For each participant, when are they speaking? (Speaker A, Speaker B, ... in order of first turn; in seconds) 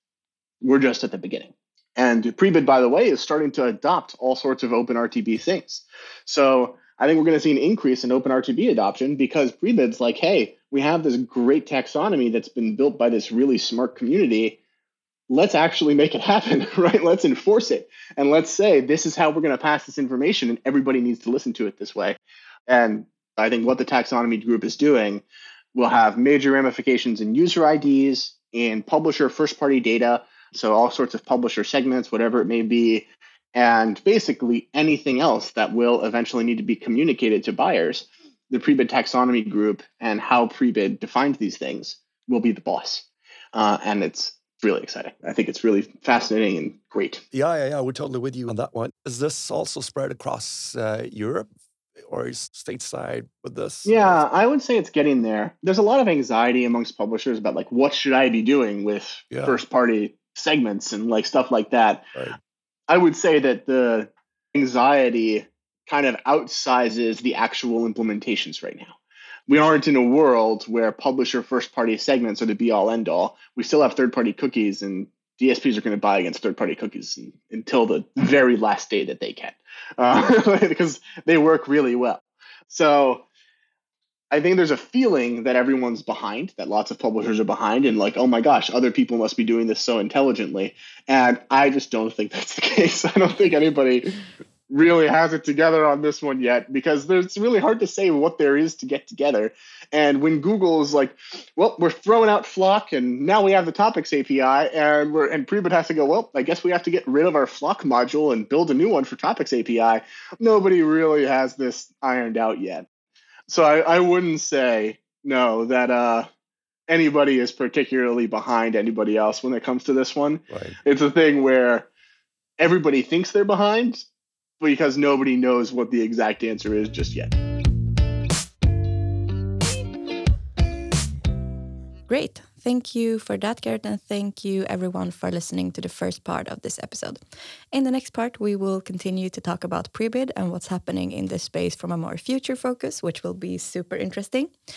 Speaker A: 0.6-14.6, 15.3-47.2, 53.9-62.1, 62.9-69.0, 69.5-83.3, 84.3-94.1, 94.7-112.9, 113.5-116.3, 116.9-121.9, 122.6-124.1, 124.6-127.3
Speaker B: 47.3-51.5, 52.1-54.2, 59.3-59.6, 120.5-120.8
Speaker C: 132.1-137.2, 137.7-144.5